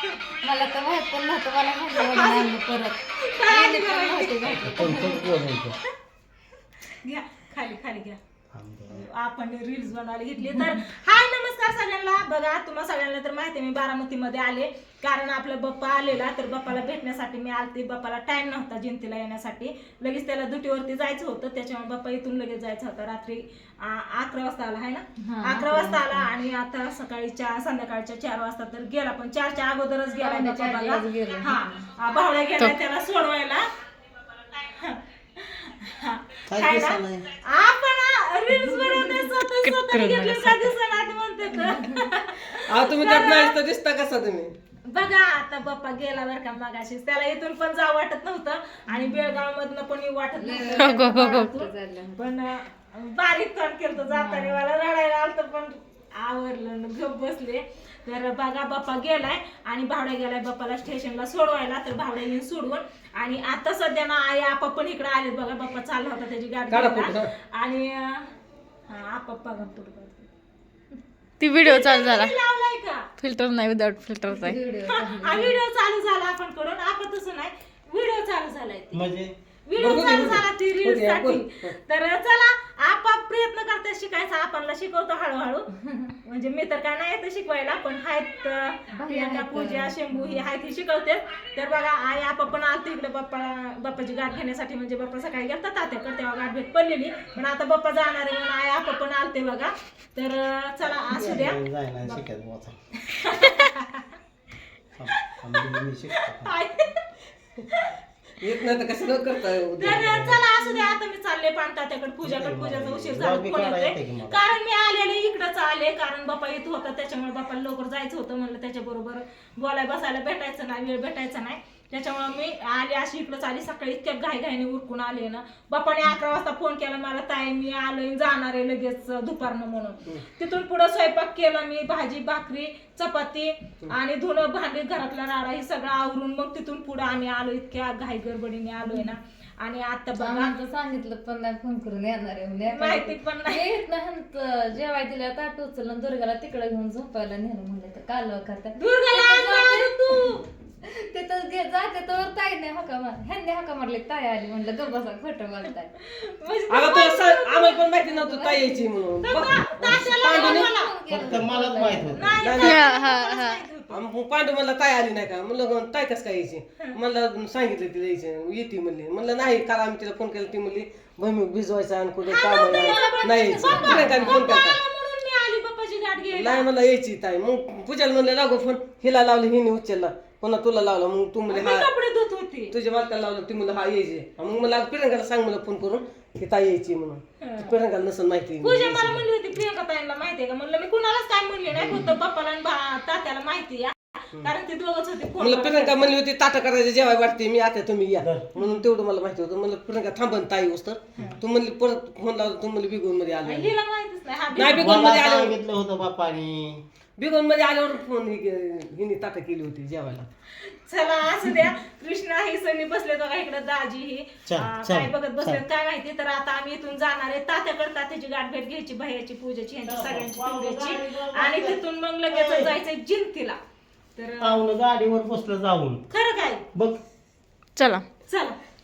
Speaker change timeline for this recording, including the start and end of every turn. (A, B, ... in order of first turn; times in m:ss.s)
0:00.4-0:03.0 A
0:02.1-0:02.6 B
0:03.2-0:05.7 B
0:03.5-0:05.2 A
0:04.6-0:05.8 C
0:07.0-0:08.2 B
0:08.5-0:09.1 C
0:08.9-0:33.6 B
0:25.2-0:26.3 A
0:30.2-0:31.9 A
0:34.6-0:43.6 B
0:36.5-0:37.2 C
0:38.6-0:39.3 A
0:39.6-0:40.8 D
0:41.5-0:42.1 A
0:42.7-0:44.5 E
0:44.9-1:08.3 B
0:48.9-0:49.4 A
0:50.4-0:52.4 A
0:50.8-0:51.4 D
0:54.0-0:54.6 A
1:06.7-1:07.3 E
1:08.9-1:10.3 B
1:11.4-1:12.3 D
1:11.6-1:13.1 B
1:13.2-1:14.6 D
1:14.3-1:15.6 A
1:14.9-1:19.0 B
1:18.9-1:19.3 C
1:19.7-1:25.7 B
1:19.8-1:21.7 E
1:25.8-1:26.1 A
1:26.2-1:42.2 B
1:28.9-1:30.5 A
1:41.1-1:42.8 C
1:43.1-1:44.1 B
1:45.0-1:46.5 C
1:46.4-1:47.0 B
1:48.4-1:50.1 E
1:49.8-2:20.5 B
1:49.9-1:50.4 C
1:52.2-1:54.4 C
2:18.9-2:19.1 A
2:20.2-2:30.2 A
2:22.7-2:23.7 B
2:28.8-2:30.4 B
2:30.8-2:35.9 A
2:36.0-2:37.8 B
2:36.7-2:40.7 E
2:38.0-2:38.9 A
2:39.2-2:40.9 B
2:40.3-2:42.4 A
2:41.1-2:42.4 C
2:42.1-2:44.0 B
2:42.4-2:42.8 E
2:42.6-2:43.6 D
2:43.9-2:54.8 E
2:52.3-2:56.7 B
2:53.6-2:54.4 A
2:56.3-3:01.9 E
3:01.5-3:02.8 B
3:02.7-3:09.2 E
3:07.4-3:07.7 B
3:08.6-3:16.1 B
3:11.7-3:12.1 E
3:15.4-3:23.8 E
3:18.2-3:18.5 C
3:23.4-3:25.5 B
3:24.6-3:25.6 E
3:24.7-3:26.8 C
3:27.2-3:30.3 E
3:30.8-3:43.6 B
3:34.5-3:35.6 C
3:39.8-3:42.7 C
3:44.2-3:44.6 B
3:44.4-3:46.0 C
3:46.1-3:46.6 B
3:47.8-3:48.1 D
3:48.3-3:48.6 B